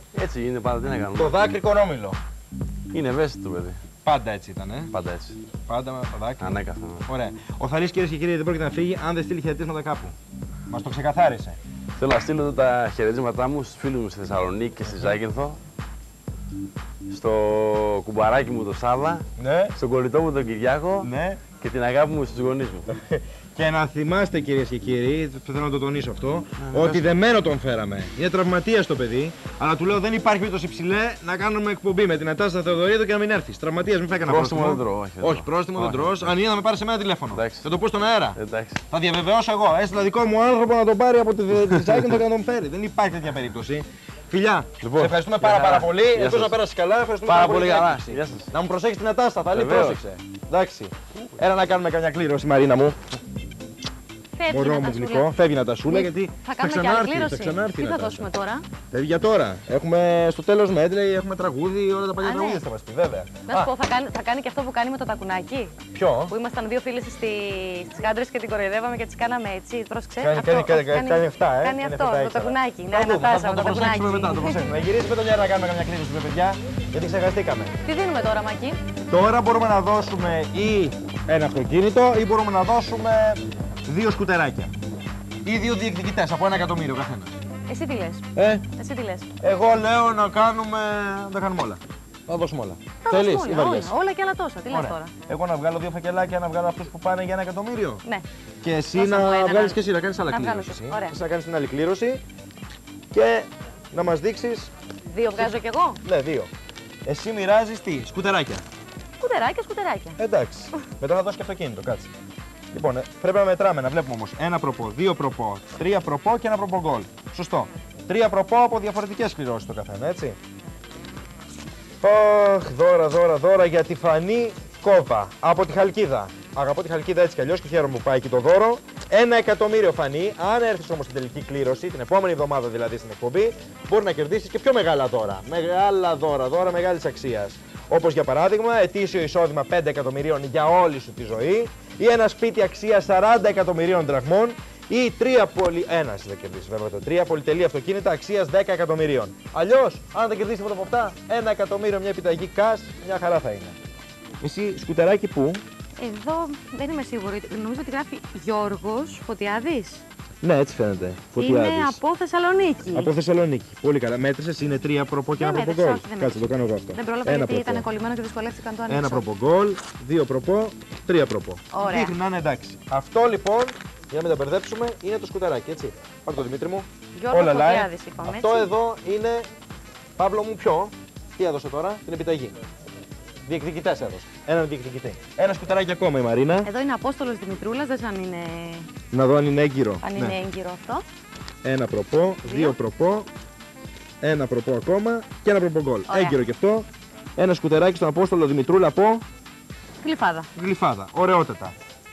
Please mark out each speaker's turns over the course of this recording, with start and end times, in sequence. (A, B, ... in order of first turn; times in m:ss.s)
0:00.1-0:01.4 A
0:01.1-0:02.2 B
0:02.9-0:03.8 A
0:04.0-0:04.9 B
0:04.9-0:05.4 A
0:05.7-0:06.5 B
0:06.4-0:07.1 A
0:07.0-0:10.1 B
0:10.7-0:11.6 B
0:12.0-0:15.6 A
0:17.1-0:22.9 A
0:19.4-0:19.8 B
0:21.0-0:21.4 B
0:22.9-0:38.4 B
0:26.6-0:27.2 A
0:34.2-0:36.3 A
0:37.3-0:37.6 A
0:38.3-0:38.8 A
0:38.9-0:53.2 B
0:44.8-0:46.6 A
0:47.2-0:48.5 A
0:49.5-0:50.0 A
0:54.4-0:55.3 C
0:54.5-0:58.3 B
0:55.9-0:58.6 C
0:58.9-1:03.7 B
1:02.2-1:02.6 C
1:03.5-1:05.7 C
1:05.9-1:06.3 B
1:06.3-1:14.7 C
1:10.2-1:17.7 B
1:17.8-1:18.8 C
1:19.1-1:24.7 B
1:25.4-1:27.3 B
1:27.7-1:29.3 C
1:28.3-1:28.6 B
1:29.4-1:33.9 B
1:33.0-1:35.1 C
1:34.7-1:38.0 B
1:38.6-1:42.2 B
1:38.9-1:41.2 C
1:43.1-1:44.7 B
1:45.1-1:46.0 C
1:45.4-1:46.5 B
1:47.0-1:48.6 B
1:49.2-1:50.2 C
1:50.2-1:52.1 B
1:52.7-2:00.4 B
2:02.0-2:33.8 B
2:34.4-2:35.6 B
2:36.0-2:40.0 C
2:40.4-2:42.0 B
2:41.4-2:43.1 C
2:42.9-2:47.9 B
2:45.4-2:49.2 C
2:48.9-2:59.5 B
2:51.7-2:52.1 C
2:57.1-2:58.7 C
3:00.2-3:02.5 B
3:03.5-3:06.7 B
3:06.6-3:08.9 C
3:09.1-3:10.4 B
3:10.0-3:11.0 C
3:11.6-3:13.3 B
3:12.4-3:12.8 C
3:14.2-3:19.2 B
3:16.1-3:16.4 C
3:20.0-3:20.5 C
3:20.5-3:21.7 B